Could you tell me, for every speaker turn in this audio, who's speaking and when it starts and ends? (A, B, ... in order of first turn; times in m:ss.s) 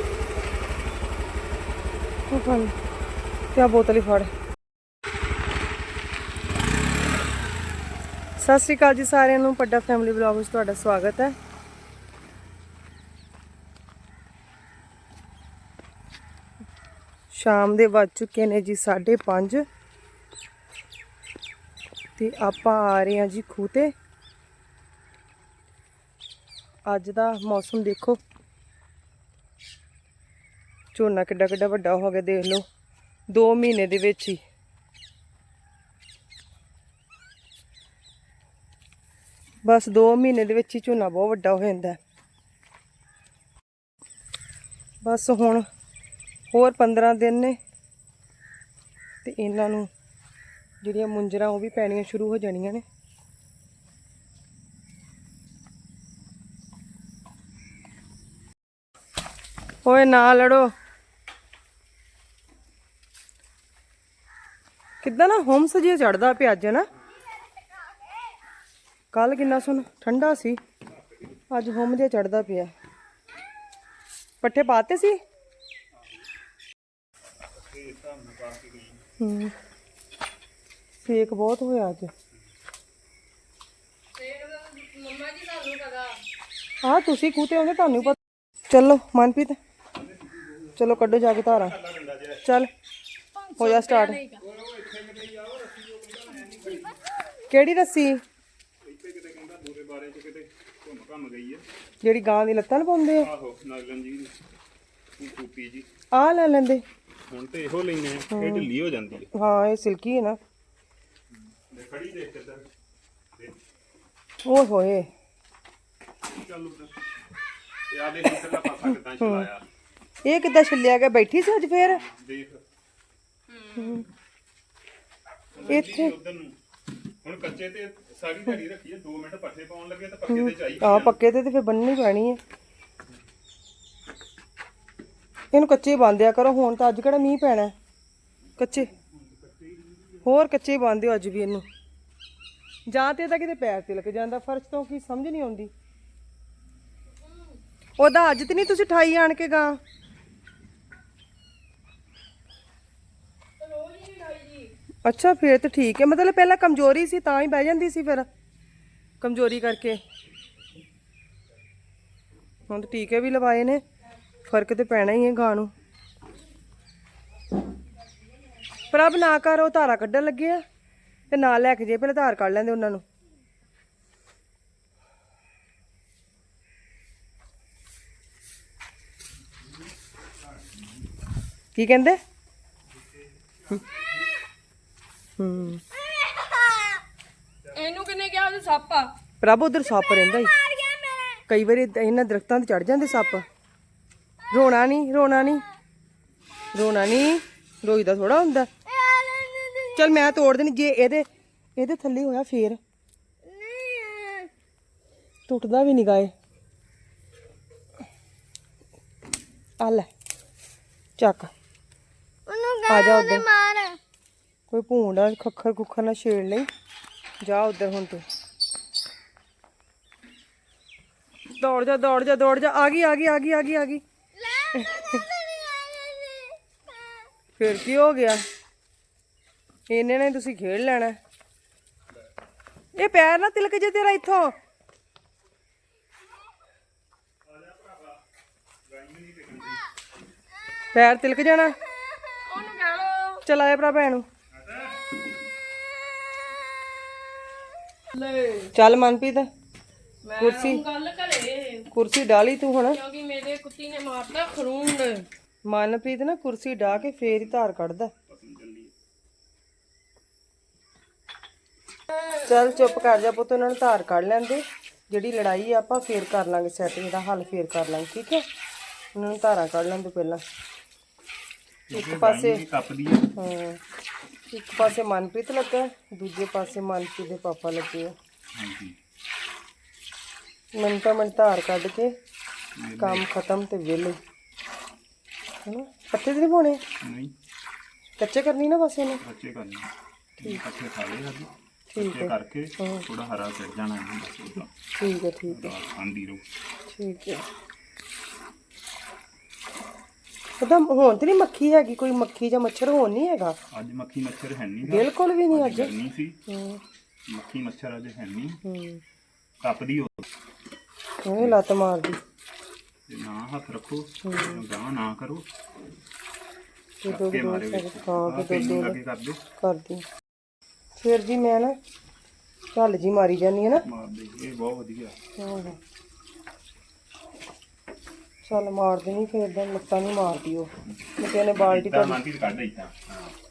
0:02.3-0:02.7 A
0:03.5-0:04.3 A
0:08.4-0:11.3 A
0:17.3-0:19.6 A
0:22.2-0:23.9 A
0:26.9-0:28.2 A
0:30.9-0:32.6 A
0:33.3-0:34.4 A
0:39.6-0:42.0 A
0:45.0-0:45.6 A
0:46.5-0:47.6 A
0:49.2-0:49.9 A
0:50.8-0:52.8 A
0:59.8-1:00.7 A
1:05.0-1:06.9 A
1:09.1-1:10.6 A
1:11.5-1:12.7 A
1:14.4-1:15.2 A
1:17.5-1:19.0 B
1:19.2-1:19.5 A
1:21.0-1:22.1 A
1:24.1-1:26.2 C
1:26.8-1:28.2 A
1:28.7-1:29.6 A
1:29.9-1:32.4 B
1:30.8-1:31.7 A
1:32.4-1:32.7 A
1:33.4-1:34.4 C
1:33.6-1:34.2 A
1:34.4-1:37.0 B
1:37.5-1:38.2 A
1:38.8-1:41.6 B
1:42.0-1:43.3 A
1:43.2-1:44.4 B
1:45.2-1:45.9 B
1:46.1-1:46.8 A
1:47.3-1:49.3 B
1:48.3-1:48.7 A
1:49.3-1:50.4 A
1:51.7-1:52.7 B
1:54.4-1:55.1 A
1:56.3-1:57.0 B
1:57.9-1:59.6 B
1:59.2-1:59.5 A
2:00.2-2:02.0 A
2:01.7-2:02.6 B
2:03.6-2:04.0 C
2:03.7-2:04.1 A
2:05.5-2:06.6 B
2:05.7-2:06.1 A
2:07.2-2:11.2 B
2:10.3-2:12.4 A
2:15.5-2:17.7 A
2:18.6-2:18.9 A
2:19.1-2:20.2 B
2:20.2-2:21.6 A
2:22.9-2:25.7 A
2:27.3-2:27.6 C
2:28.0-2:29.8 A
2:33.6-2:34.7 C
2:35.0-2:38.3 A
2:39.2-2:40.0 A
2:42.7-2:43.8 A
2:44.4-2:45.7 A
2:48.9-2:50.6 A
2:51.3-2:53.0 A
3:01.7-3:02.2 A
3:03.0-3:03.8 B
3:05.4-3:05.8 A
3:07.7-3:09.1 C
3:09.4-3:10.5 A
3:11.5-3:13.4 A
3:14.5-3:15.6 A
3:16.7-3:18.7 A
3:19.8-3:22.8 A
3:25.5-3:26.3 A
3:29.8-3:30.1 A
3:31.2-3:31.5 A
3:32.8-3:33.6 A
3:34.7-3:36.7 A
3:37.4-3:38.2 A
3:41.5-3:44.0 A
3:44.7-3:45.2 A
3:47.6-3:48.4 A
3:49.9-3:51.2 A
3:52.9-3:54.5 A
3:57.4-3:58.2 B
3:58.8-3:59.8 B
4:00.9-4:01.7 A
4:02.4-4:03.4 C
4:03.4-4:04.3 A
4:04.6-4:05.1 B
4:08.1-4:08.7 C
4:08.7-4:09.5 A
4:10.2-4:11.9 C
4:10.4-4:10.8 A
4:11.9-4:13.0 A
4:12.9-4:15.3 C
4:15.6-4:18.1 A
4:16.8-4:17.6 B
4:18.2-4:18.9 B
4:22.4-4:28.4 A
4:29.1-4:30.4 A
4:31.9-4:33.3 B
4:31.9-4:32.6 A
4:33.3-4:33.8 A
4:34.5-4:38.1 A
4:38.5-4:39.0 B
4:40.7-4:42.1 A
4:42.8-4:43.3 B
4:43.0-4:44.2 A
4:45.6-4:46.8 A
4:47.0-4:47.3 B
4:48.2-4:49.2 A
4:49.2-4:54.7 B
4:51.9-4:53.0 A
4:54.9-4:55.7 A
4:55.5-4:56.4 B
4:56.9-4:57.5 A
5:00.6-5:03.6 A
5:03.7-5:06.4 B
5:04.9-5:05.9 A
5:06.5-5:06.8 A
5:07.3-5:08.6 B
5:08.6-5:09.0 A
5:09.6-5:10.2 B
5:11.2-5:12.2 A
5:13.1-5:15.4 B
5:14.2-5:14.6 A
5:17.0-5:19.0 A
5:17.0-5:19.4 B
5:19.6-5:20.0 A
5:21.0-5:21.8 A
5:22.7-5:23.8 A
5:23.8-5:25.2 B
5:25.4-5:25.8 A
5:28.4-5:32.2 A
5:31.5-5:33.3 B